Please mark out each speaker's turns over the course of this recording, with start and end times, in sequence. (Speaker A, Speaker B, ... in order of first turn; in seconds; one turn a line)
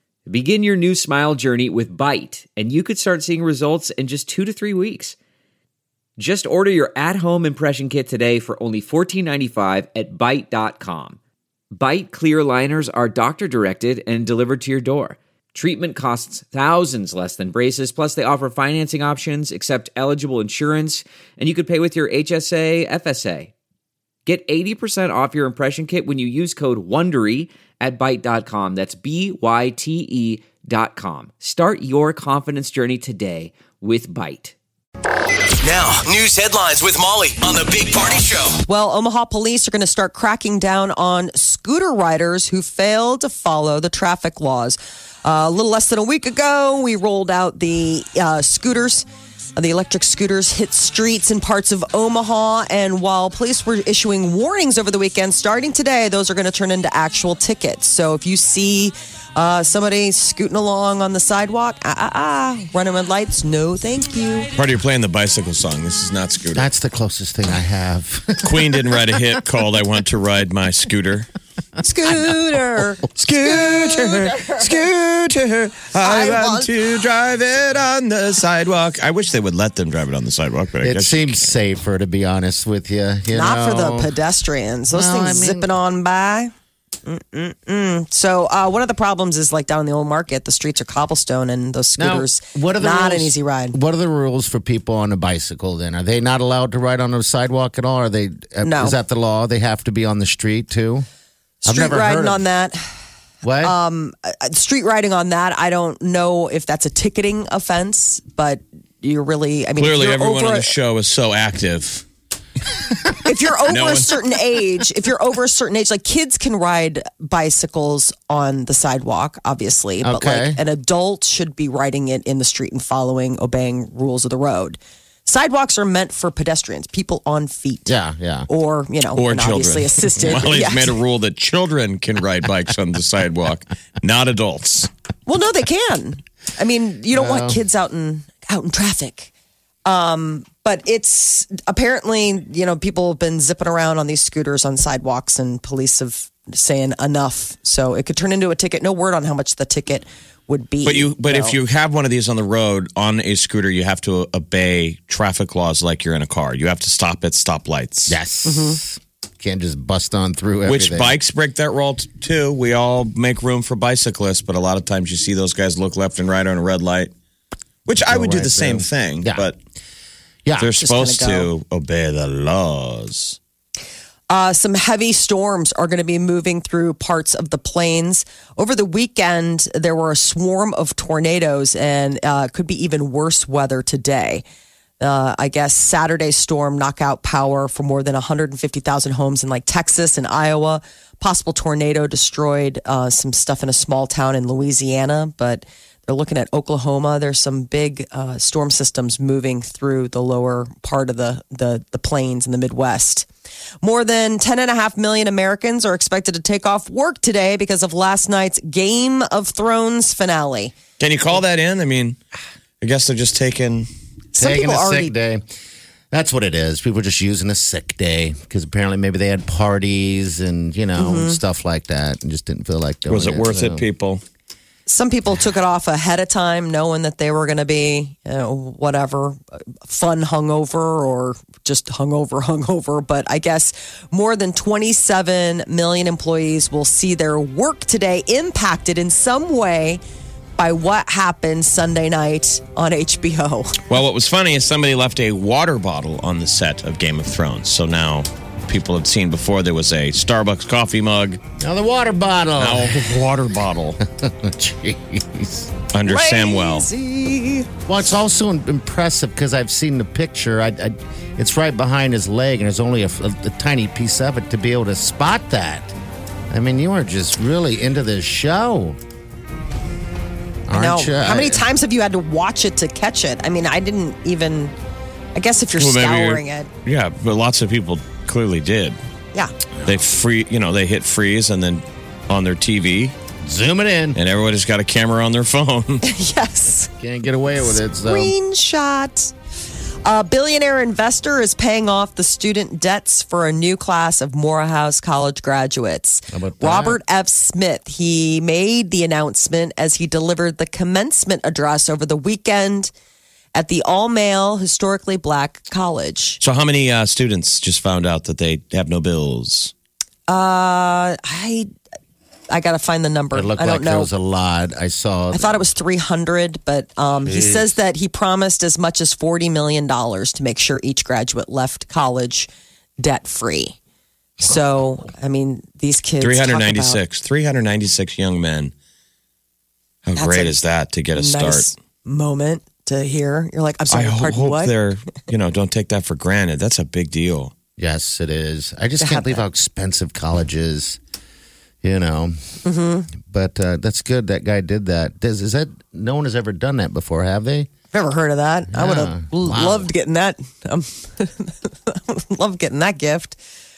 Speaker A: 0.2-5.2
Speaker A: 6.2-11.2
Speaker A: 11.7-23.5
Speaker A: 24.2-34.5
Speaker B: 35.6-38.6
Speaker C: 38.6-64.5
Speaker D: 64.5-66.7
Speaker E: 66.5-69.0
Speaker D: 68.4-71.3
Speaker C: 71.8-73.0
Speaker D: 73.2-81.5
Speaker C: 76.0-76.7
Speaker E: 80.8-84.1
Speaker C: 83.3-86.5
Speaker E: 84.9-85.7
Speaker C: 87.0-93.8
Speaker E: 92.0-101.0
Speaker C: 98.6-99.0
Speaker C: 101.6-102.9
Speaker E: 101.7-102.4
Speaker E: 103.4-103.7
Speaker C: 103.6-110.7
Speaker D: 109.8-112.0
Speaker C: 113.2-127.9
Speaker D: 113.7-114.2
Speaker E: 120.0-120.6
Speaker E: 127.9-128.5
Speaker C: 128.5-130.9
Speaker D: 129.1-134.9
Speaker C: 135.3-139.3
Speaker E: 137.1-137.6
Speaker C: 139.8-151.6
Speaker D: 150.8-158.2
Speaker E: 158.1-161.1
Speaker C: 158.4-158.8
Speaker D: 160.7-167.1
Speaker D: 167.8-169.5
Speaker E: 168.0-169.5
Speaker E: 170.4-170.8
Speaker D: 170.6-173.4
Speaker C: 170.8-171.5
Speaker C: 174.3-184.4
Speaker C: 185.0-203.3
Speaker C: 203.8-210.7
Speaker D: 211.0-212.2
Speaker D: 212.8-213.9
Speaker C: 214.3-215.1
Speaker E: 214.4-215.4
Speaker E: 216.1-223.8
Speaker C: 221.0-221.4
Speaker D: 223.1-224.2
Speaker C: 224.9-240.0
Speaker C: 240.6-243.8
Speaker D: 243.9-251.4
Speaker E: 251.6-253.3
Speaker D: 252.6-254.0
Speaker E: 254.0-255.7
Speaker D: 255.9-256.9
Speaker C: 256.1-257.7
Speaker E: 257.9-265.9
Speaker E: 266.5-269.0
Speaker E: 270.7-271.6
Speaker C: 270.7-274.7
Speaker C: 275.3-276.7
Speaker D: 275.8-279.0
Speaker D: 279.8-283.1
Speaker E: 283.4-284.2
Speaker D: 284.1-286.0
Speaker C: 286.0-286.9
Speaker E: 287.0-288.3
Speaker C: 288.0-289.3
Speaker C: 290.0-302.9
Speaker E: 296.3-297.0
Speaker C: 303.5-306.4
Speaker D: 306.4-309.7
Speaker C: 310.3-311.7
Speaker C: 312.5-314.1
Speaker E: 313.3-315.7
Speaker C: 315.3-322.5
Speaker E: 317.3-317.6
Speaker C: 323.0-323.8
Speaker C: 324.4-327.0
Speaker D: 326.2-328.7
Speaker D: 330.0-331.7
Speaker C: 330.1-330.6
Speaker C: 331.1-334.7
Speaker D: 333.9-337.5
Speaker E: 337.8-341.0
Speaker C: 339.0-339.4
Speaker E: 341.8-342.4
Speaker C: 342.6-343.1
Speaker E: 343.1-347.7
Speaker C: 347.9-353.4
Speaker E: 348.7-349.9